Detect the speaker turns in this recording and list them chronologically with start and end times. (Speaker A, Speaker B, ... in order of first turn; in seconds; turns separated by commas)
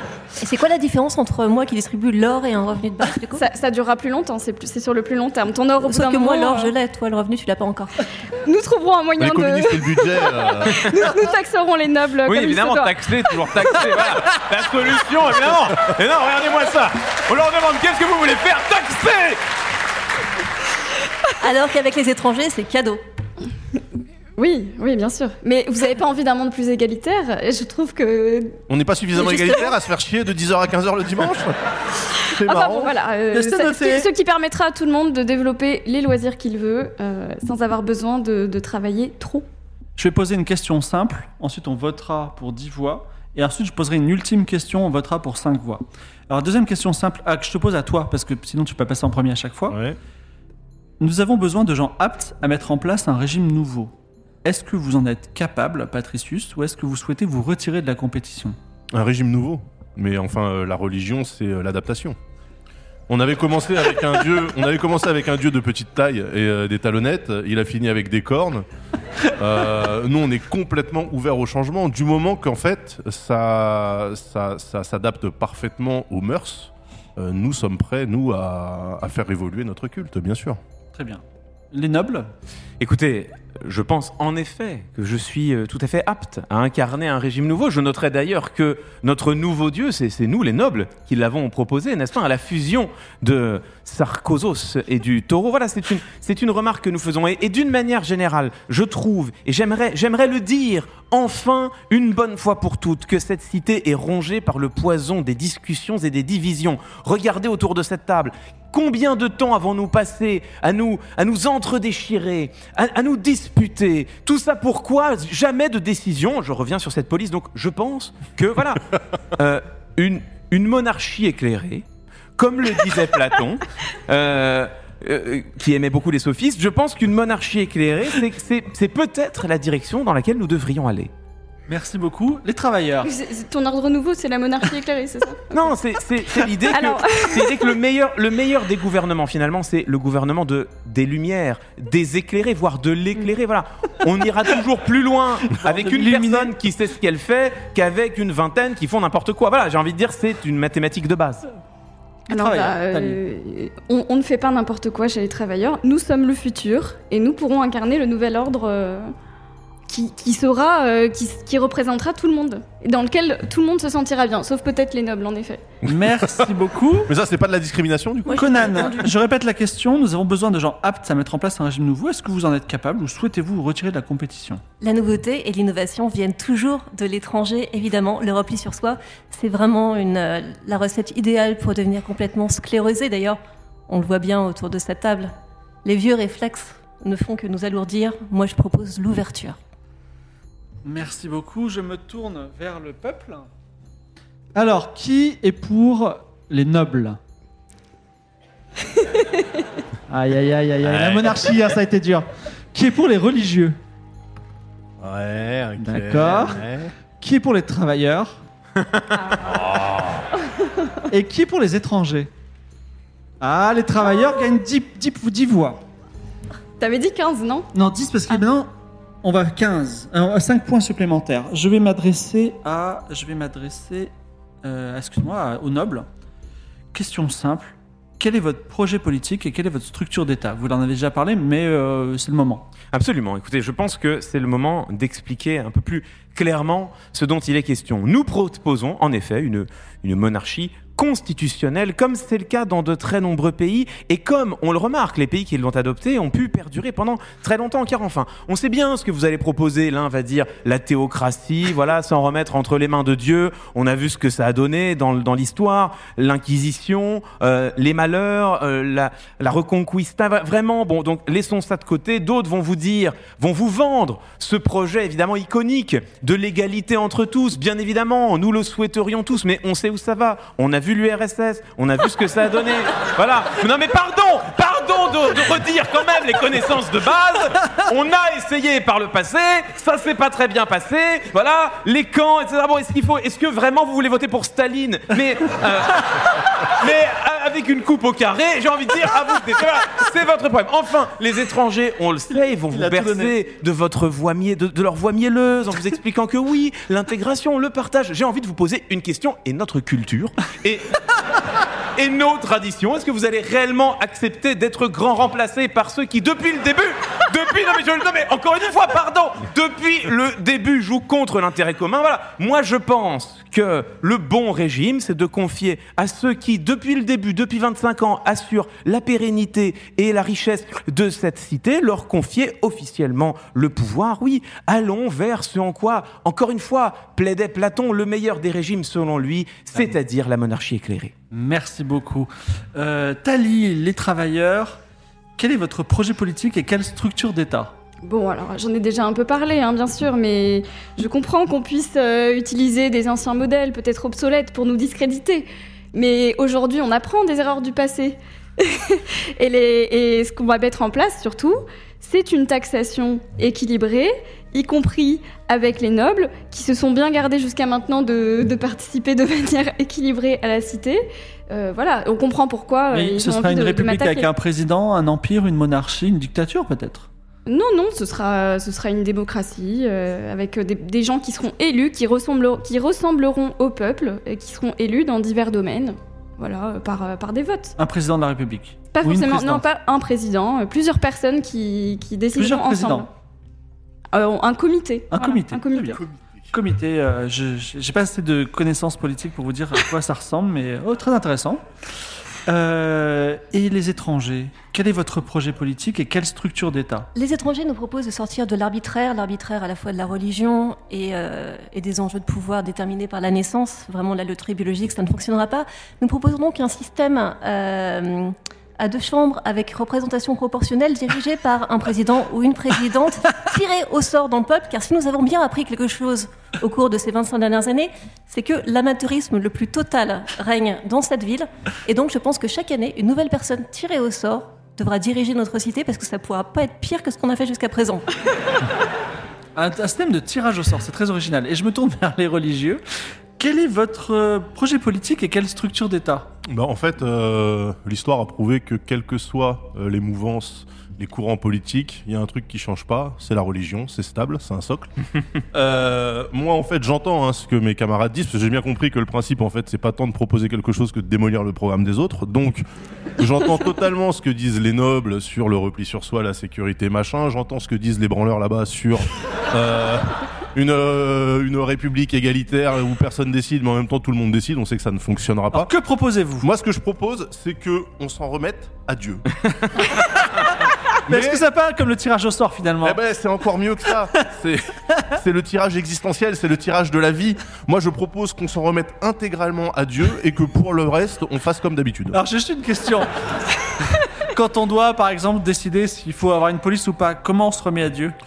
Speaker A: 0.4-3.4, Speaker B: 3.4-6.7, Speaker A: 5.8-8.0, Speaker B: 8.4-13.4, Speaker C: 9.2-10.9, Speaker D: 12.2-19.4, Speaker A: 21.4-23.0, Speaker B: 24.4-28.6, Speaker C: 28.7-31.5, Speaker B: 29.1-29.7, Speaker C: 32.1-32.9, Speaker B: 32.4-39.4, Speaker E: 33.3-34.1, Speaker E: 40.0-49.8, Speaker C: 49.7-50.0, Speaker E: 51.0-53.9, Speaker E: 54.4-58.5, Speaker C: 58.9-62.1, Speaker C: 63.1-68.6, Speaker C: 69.3-80.6, Speaker E: 80.9-82.3, Speaker D: 82.8-118.8, Speaker D: 119.3-121.8, Speaker D: 122.4-131.1, Speaker E: 131.7-133.1, Speaker B: 133.0-135.7, Speaker D: 135.5-151.4, Speaker B: 136.4-137.7, Speaker E: 145.5-146.6, Speaker E: 152.3-153.2, Speaker B: 152.3-159.1, Speaker B: 159.9-165.7, Speaker C: 165.8-166.4, Speaker E: 165.8-167.1, Speaker C: 167.1-169.0, Speaker A: 168.2-169.1, Speaker E: 168.3-174.6, Speaker A: 174.8-185.3, Speaker A: 185.8-189.6, Speaker E: 190.8-193.5, Speaker E: 194.5-197.2, Speaker B: 199.0-199.4, Speaker E: 200.1-203.8, Speaker C: 200.8-201.3, Speaker C: 205.0-206.9, Speaker E: 205.8-206.6, Speaker E: 207.2-208.4, Speaker D: 208.8-209.1, Speaker C: 209.5-210.2, Speaker E: 211.1-212.3, Speaker E: 213.4-215.8, Speaker B: 216.8-217.7, Speaker E: 217.7-218.7, Speaker E: 219.2-224.1, Speaker E: 224.6-226.1, Speaker E: 226.9-232.7, Speaker D: 232.9-301.0, Speaker E: 292.7-293.3, Speaker D: 302.0-331.1, Speaker E: 331.3-334.8, Speaker E: 335.4-337.7, Speaker B: 338.0-364.3, Speaker E: 362.9-367.1, Speaker B: 367.5-377.8, Speaker E: 377.8-379.7, Speaker B: 378.9-383.1, Speaker E: 382.3-383.1, Speaker B: 384.1-386.0, Speaker E: 385.1-386.0, Speaker E: 386.5-391.6, Speaker E: 392.5-397.1, Speaker A: 397.1-428.1, Speaker E: 429.5-432.8, Speaker E: 433.4-436.3, Speaker C: 436.4-444.9, Speaker C: 445.5-452.6, Speaker C: 453.2-465.7, Speaker E: 465.5-466.5, Speaker C: 466.4-469.2, Speaker C: 471.1-471.4, Speaker E: 471.1-473.0, Speaker C: 472.8-482.2, Speaker E: 482.1-483.3, Speaker E: 484.3-488.1